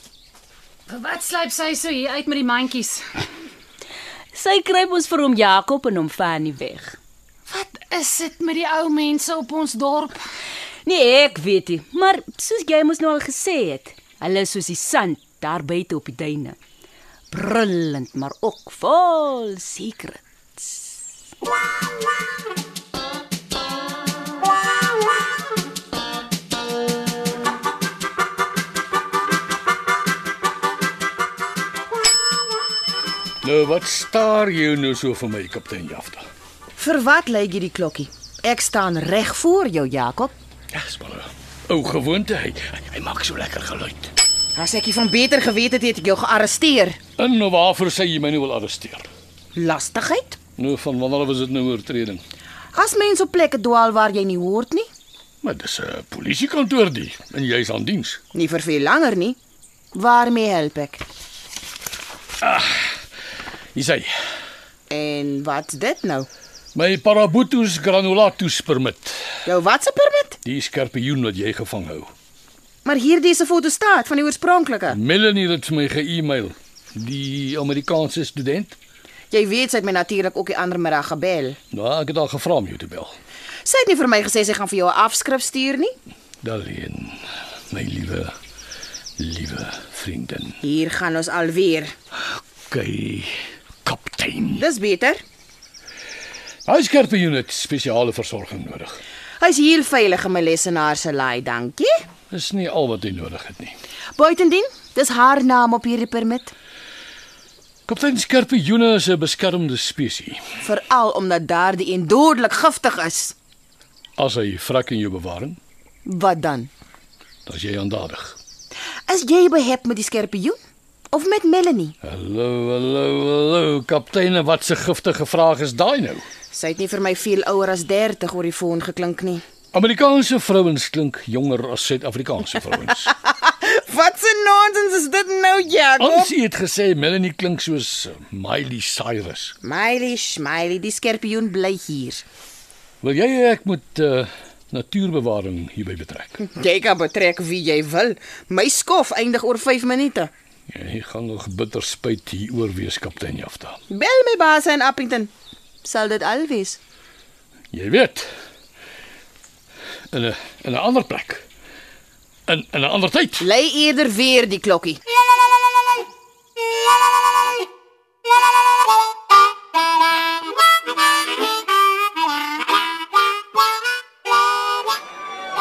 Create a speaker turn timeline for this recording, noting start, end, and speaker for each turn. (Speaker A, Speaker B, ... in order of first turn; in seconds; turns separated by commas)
Speaker A: 0.9-3.2, Speaker B: 4.3-7.0, Speaker A: 7.5-10.1, Speaker B: 10.8-16.6, Speaker B: 17.3-21.0, Speaker C: 33.4-36.2, Speaker D: 36.8-40.3, Speaker C: 40.7-44.1, Speaker D: 44.5-47.0, Speaker C: 47.2-49.1, Speaker D: 49.5-50.4, Speaker C: 50.6-52.2, Speaker D: 52.7-54.9, Speaker C: 55.4-58.2, Speaker D: 58.3-59.4, Speaker D: 59.9-61.0, Speaker C: 62.4-63.0, Speaker C: 63.7-64.1, Speaker D: 64.9-66.3, Speaker C: 66.7-69.2, Speaker D: 69.5-70.4, Speaker C: 70.5-72.1, Speaker D: 72.8-75.0, Speaker C: 74.9-78.8, Speaker D: 79.3-81.6, Speaker C: 81.7-83.1, Speaker D: 83.7-85.9, Speaker C: 86.4-87.2, Speaker C: 87.7-88.3, Speaker C: 89.2-90.6, Speaker D: 90.6-91.9, Speaker C: 92.3-93.3, Speaker C: 93.8-94.6, Speaker D: 94.5-95.2, Speaker C: 96.7-99.0, Speaker D: 99.4-102.0, Speaker C: 102.3-103.8, Speaker D: 104.2-106.5, Speaker C: 107.9-110.4, Speaker D: 110.6-113.3, Speaker C: 114.2-115.6, Speaker D: 116.0-116.7, Speaker C: 117.5-118.4, Speaker D: 119.1-120.6, Speaker D: 121.1-121.9, Speaker C: 122.0-126.2, Speaker D: 126.5-129.4, Speaker C: 129.7-133.1, Speaker D: 133.1-136.3, Speaker C: 136.0-139.5, Speaker D: 139.6-142.2, Speaker C: 143.0-146.4, Speaker D: 146.4-150.3, Speaker C: 150.7-153.8, Speaker D: 153.9-155.3, Speaker D: 155.8-156.8, Speaker C: 157.7-158.3, Speaker C: 160.1-161.4, Speaker C: 162.5-163.5, Speaker D: 163.4-165.0